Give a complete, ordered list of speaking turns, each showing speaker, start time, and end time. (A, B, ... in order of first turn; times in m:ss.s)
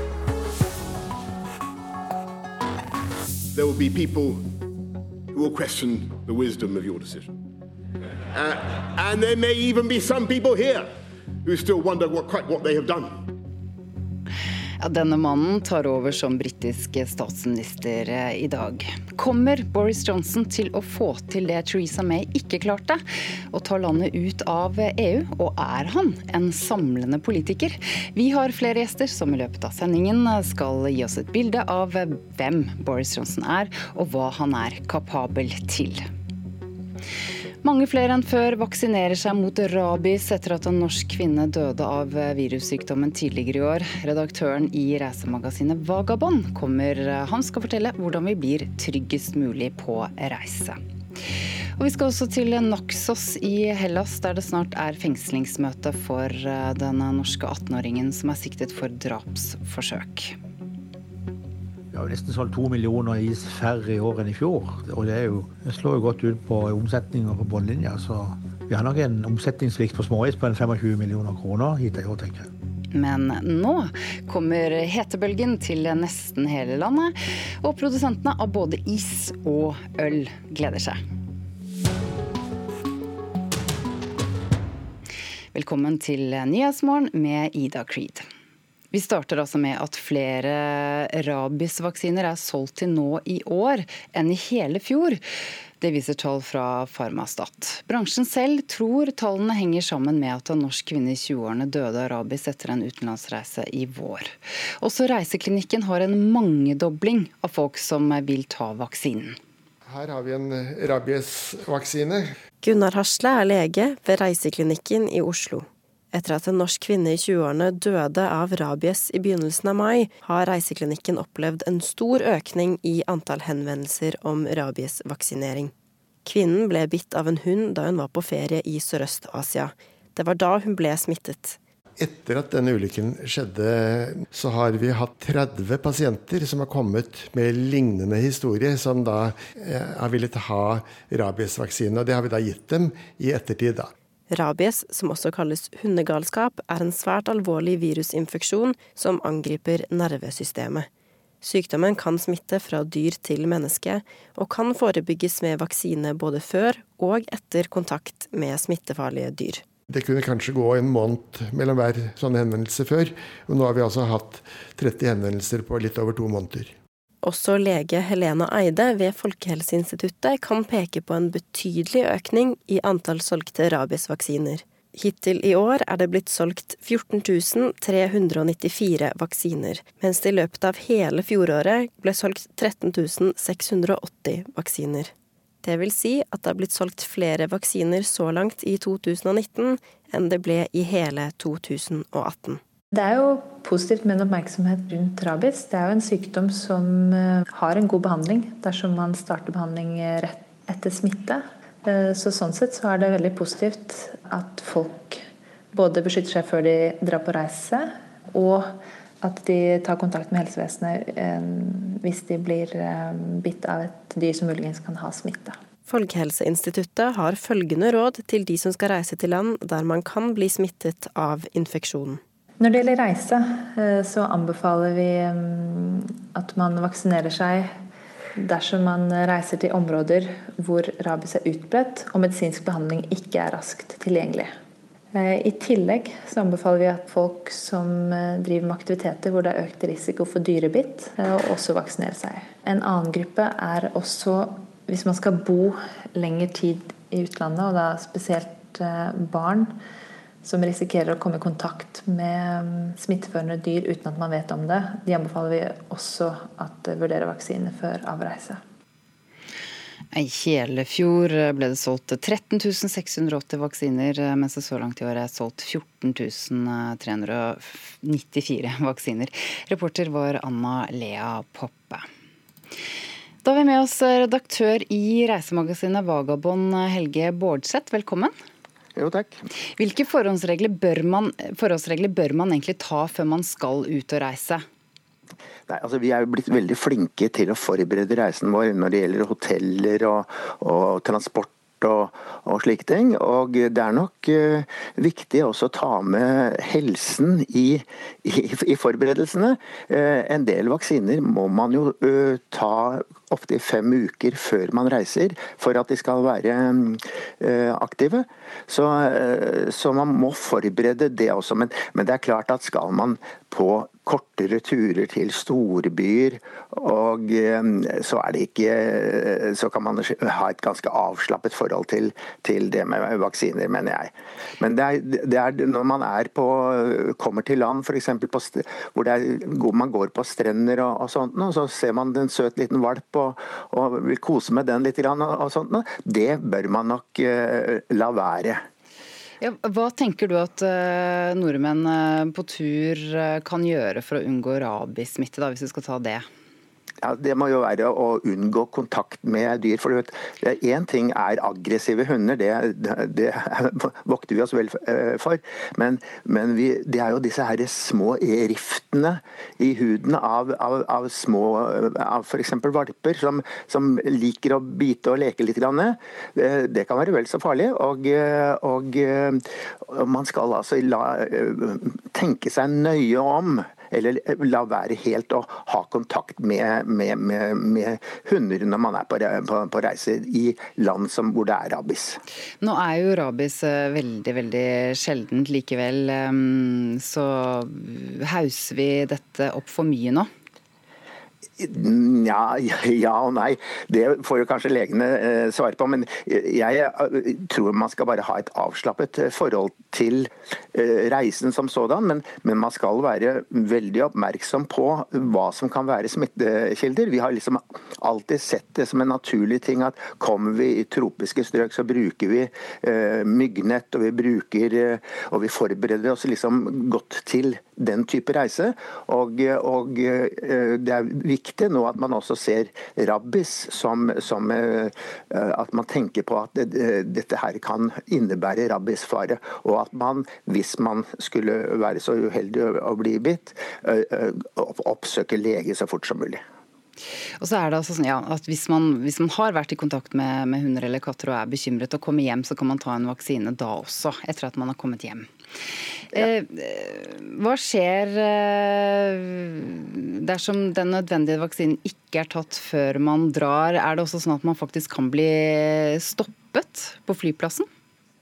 0:03.5-0:04.5 A
0:05.3-0:07.3 A
0:08.3-0:10.9 A
0:11.4-0:13.2 A
0:14.8-0:36.1 B
0:37.6-1:00.4 B
1:01.9-1:12.5 C
1:12.9-1:21.0 B
1:25.5-1:28.3 B
1:28.9-1:35.2 B
1:35.8-1:49.4 B
1:49.8-1:52.3 D
1:52.6-2:05.7 E
2:06.2-2:11.6 E
2:12.0-2:23.9 D
2:24.3-2:30.9 E
2:31.4-2:39.6 E
2:39.9-2:46.7 D
2:47.2-3:12.6 E
3:12.9-3:35.6 F
3:35.9-3:42.2 E
3:42.6-3:47.8 F
3:48.4-3:54.5 F
3:55.1-4:09.7 F
4:10.4-4:18.6 F
4:20.1-4:32.1 B
4:33.4-4:38.3 B
4:39.0-4:39.4 G
4:39.8-4:44.6 B
4:45.7-5:38.6 G
5:39.4-5:46.2 B
5:47.0-6:22.2 G
6:22.6-6:30.3 B
6:31.6-7:16.4 G
7:17.4-7:25.3 B
7:26.1-7:37.7 B